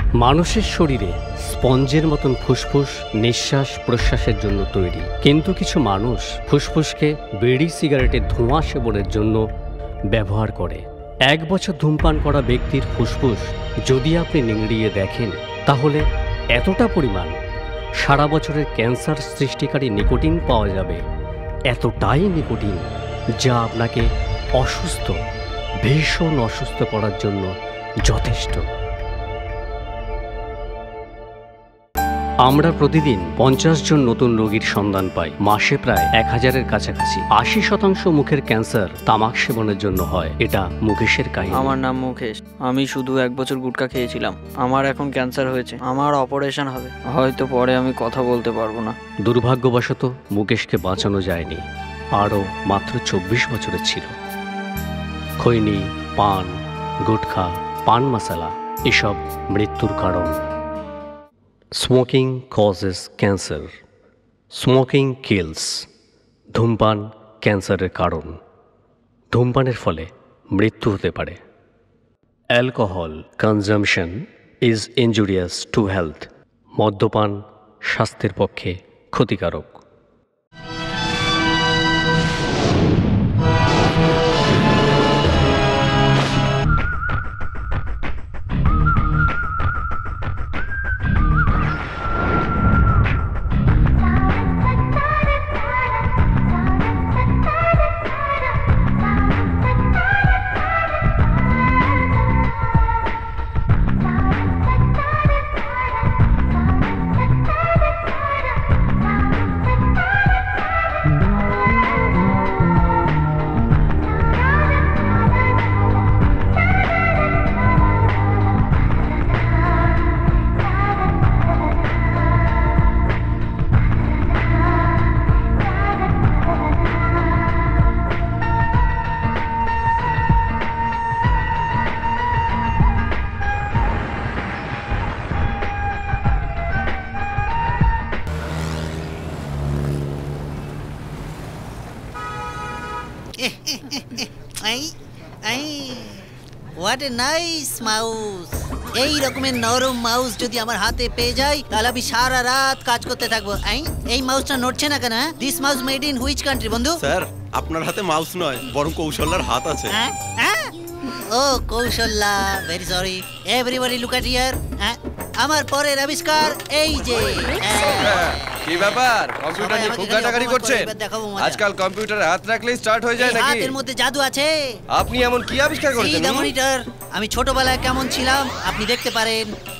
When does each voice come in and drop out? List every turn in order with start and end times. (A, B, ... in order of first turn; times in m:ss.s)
0:00.2-0:09.4 A
0:10.1-0:16.0 A
0:16.5-0:17.3 A
0:18.0-0:21.0 A
0:21.7-0:22.9 A
0:23.4-0:25.2 A
0:25.8-0:27.5 A
0:28.0-0:28.6 A
0:32.4-0:41.7 A
0:41.5-0:48.9 B
0:49.2-0:51.6 A
0:52.1-0:54.1 A
0:55.4-1:00.4 A
1:01.8-1:03.7 A
1:04.5-1:05.9 A
1:06.5-1:08.4 A
1:09.3-1:11.4 A
1:12.5-1:19.8 A
2:23.4-2:24.9 C
2:25.4-2:26.2 C
2:26.8-2:37.0 C
2:37.0-2:39.9 D
2:39.9-2:40.7 C
2:41.3-2:48.3 C
2:48.1-2:50.9 E
2:49.6-2:51.6 C
2:51.4-2:53.7 E
2:53.2-2:54.5 C
2:54.9-2:56.5 E
2:56.0-2:59.4 C